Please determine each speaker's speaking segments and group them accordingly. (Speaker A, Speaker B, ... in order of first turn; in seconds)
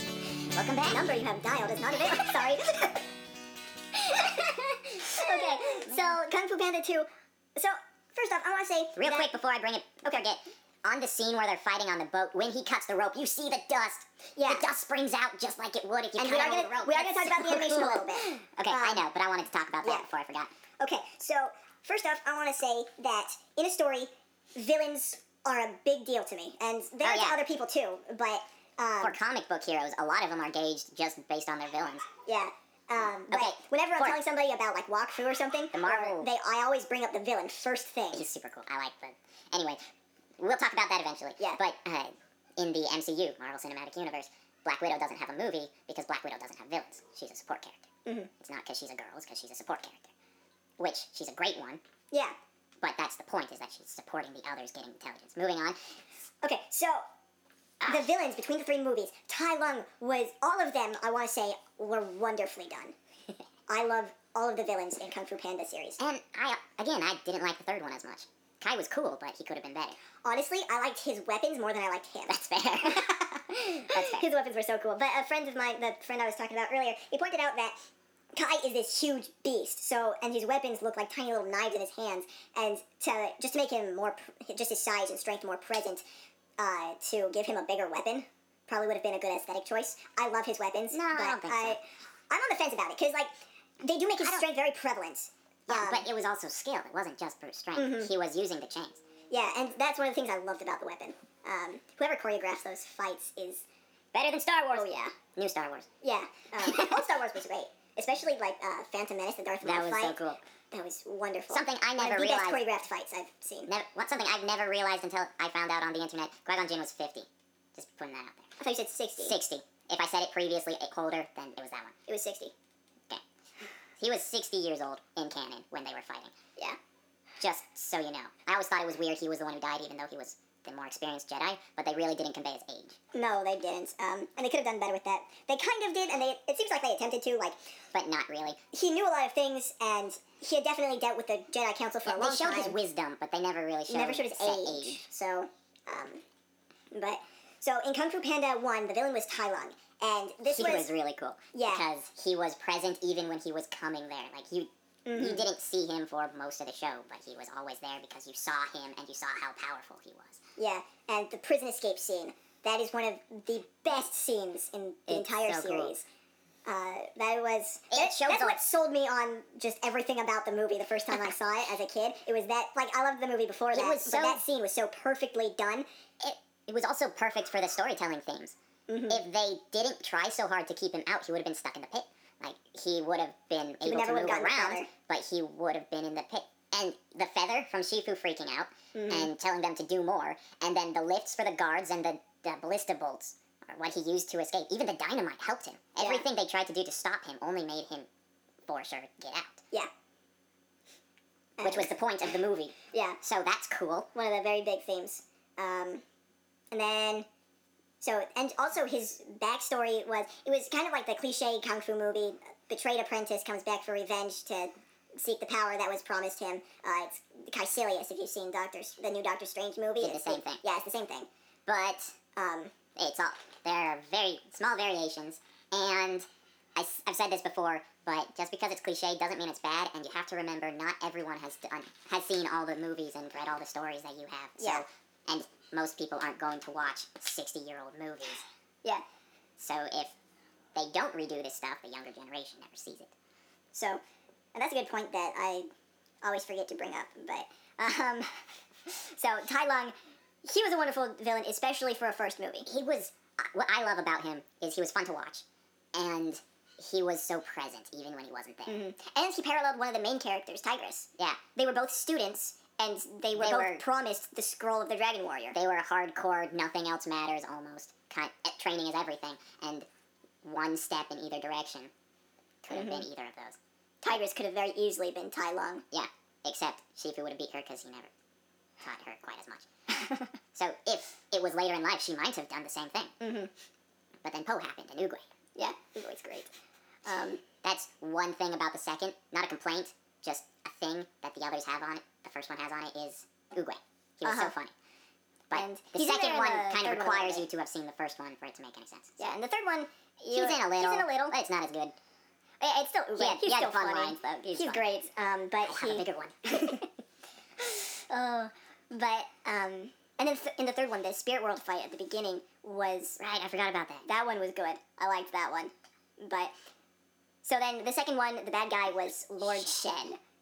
Speaker A: 0.5-1.1, 5.2-6.2, 9.0-20.5, 27.0-27.4, 29.0-32.0, 33.3-34.2, 35.7-36.3, 38.1-39.8, 40.4-47.8, 48.4-50.1, 50.8-51.8, 52.8-55.9, 57.8-58.1, 66.0-70.0, 72.3-74.3, 90.9-91.8, 94.2-94.4, 95.7-99.0, 104.1-105.9, 106.6-107.0, 109.6-110.4, 111.5-112.6, 113.7-118.5, 119.2-121.9, 124.0-126.3, 127.4-133.0, 137.9-138.6, 142.1-145.0, 150.5-160.4, 165.1-166.0, 167.9-168.6, 173.7-174.4, 176.2-178.6, 179.1-198.1, 198.7-199.6, 201.6-204.1, 220.0-220.6, 221.7-222.2, 222.9-238.4, 239.6-240.1, 240.7-243.1, 252.7-255.4, 255.9-258.8, 263.3-263.8, 265.5-269.9, 270.4-271.9, 272.6-273.6, 275.9-278.1, 278.8-279.6, 280.5-283.1, 284.2-285.2, 287.6-294.7, 295.5-299.2, 300.3-301.9, 303.2-304.9, 305.6-306.8, 313.2-314.1, 319.4-320.1
Speaker B: 0.9-3.0, 4.0-9.3, 14.3-14.7, 16.2-19.0, 20.8-29.2, 32.2-38.3, 56.4-57.0, 57.9-62.9, 63.7-66.0, 70.2-72.4, 73.8-77.8, 78.3-86.0, 86.6-96.1, 97.8-98.1, 99.3-103.6, 104.7-105.1, 106.0-110.2, 110.7-113.7, 118.6-119.4, 122.1-122.5, 133.1-137.6, 138.7-142.8, 143.9-146.2, 146.9-150.9, 151.5-151.8, 155.0-155.5, 160.6-166.1, 166.7-175.8, 178.9-179.2, 183.8-184.9, 188.9-189.3, 196.0-196.2, 201.6-201.9, 202.9-203.2, 204.1-206.0, 206.7-207.2, 208.0-221.3, 222.3-222.7, 234.6-234.8, 243.7-244.0, 244.5-245.7, 246.2-252.7, 258.7-265.6, 272.7-273.0, 274.0-275.8, 280.0-280.3, 283.2-283.5, 285.6-286.5, 287.1-287.4, 294.2-294.5, 295.5-297.4, 299.2-301.4, 302.6-306.9, 307.6-313.2, 314.1-316.5, 317.4-320.2